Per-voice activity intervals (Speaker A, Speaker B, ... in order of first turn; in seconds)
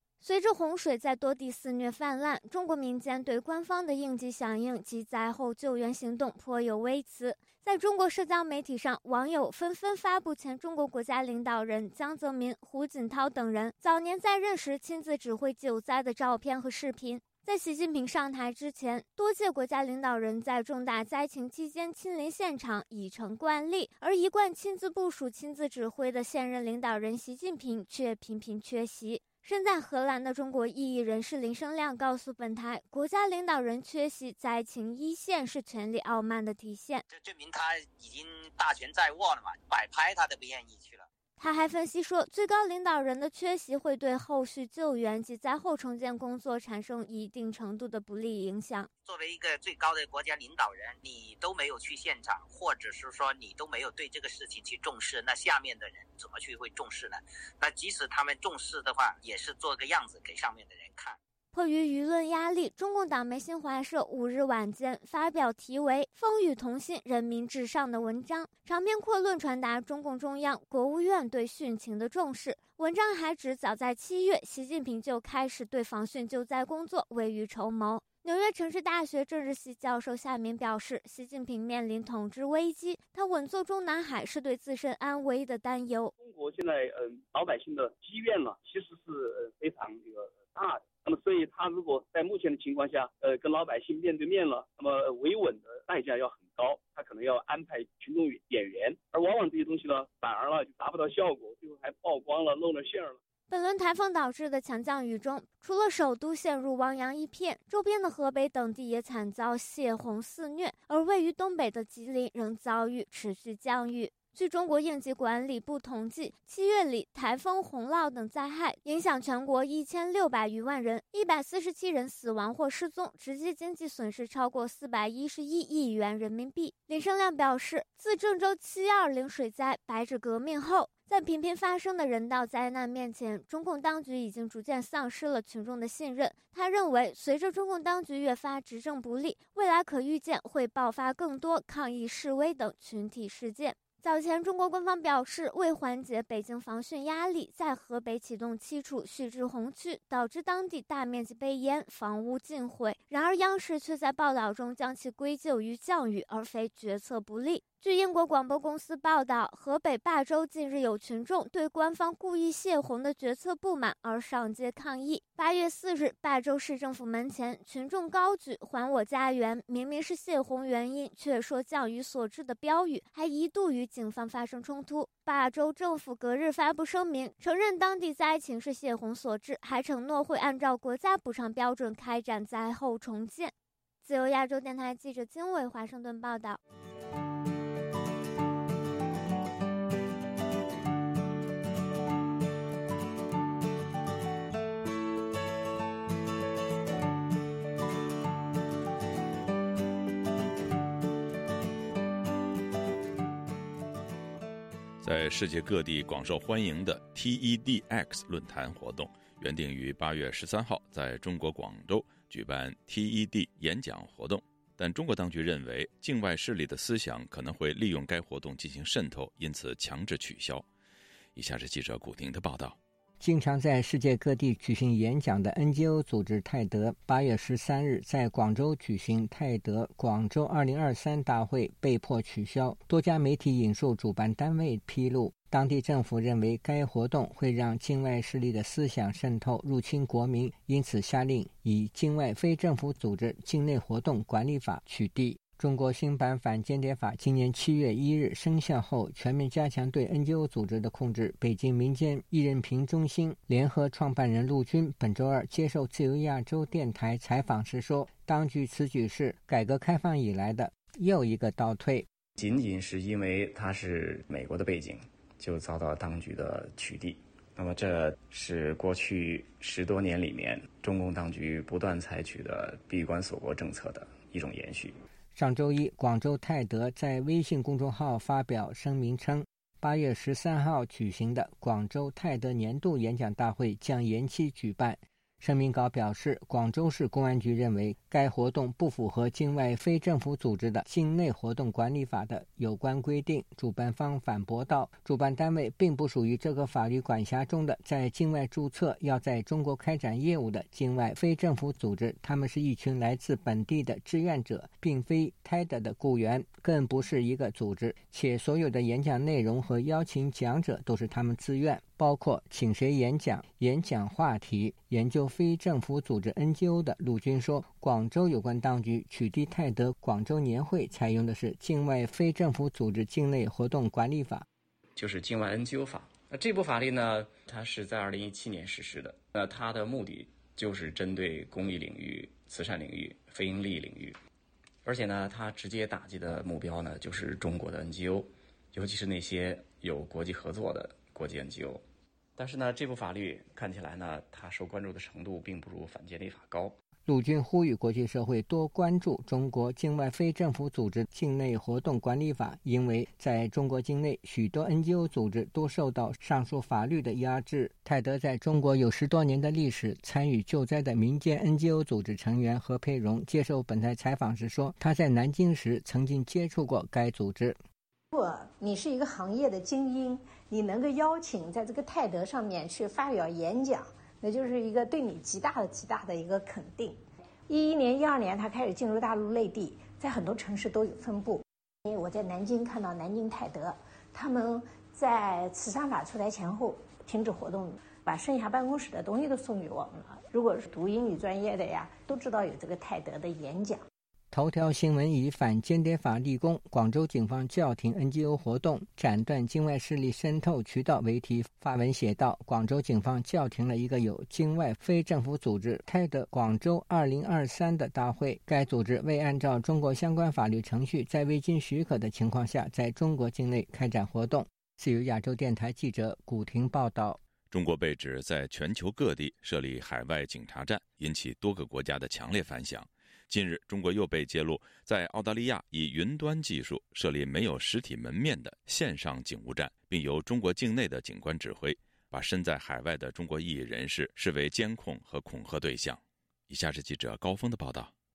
Speaker A: 0.2-37.0, 41.4-48.9, 61.5-86.1, 103.5-183.5, 184.0-186.6
Speaker B: 37.1-41.1, 49.0-61.2
Speaker C: 86.2-103.2
Speaker D: 205.0-220.7, 221.3-222.8, 417.5-437.9
Speaker E: 223.2-262.1, 275.4-324.5, 347.1-367.6, 394.3-417.2
Speaker F: 262.4-275.0, 325.0-334.2, 334.9-341.8, 342.4-346.8
Speaker G: 368.1-393.8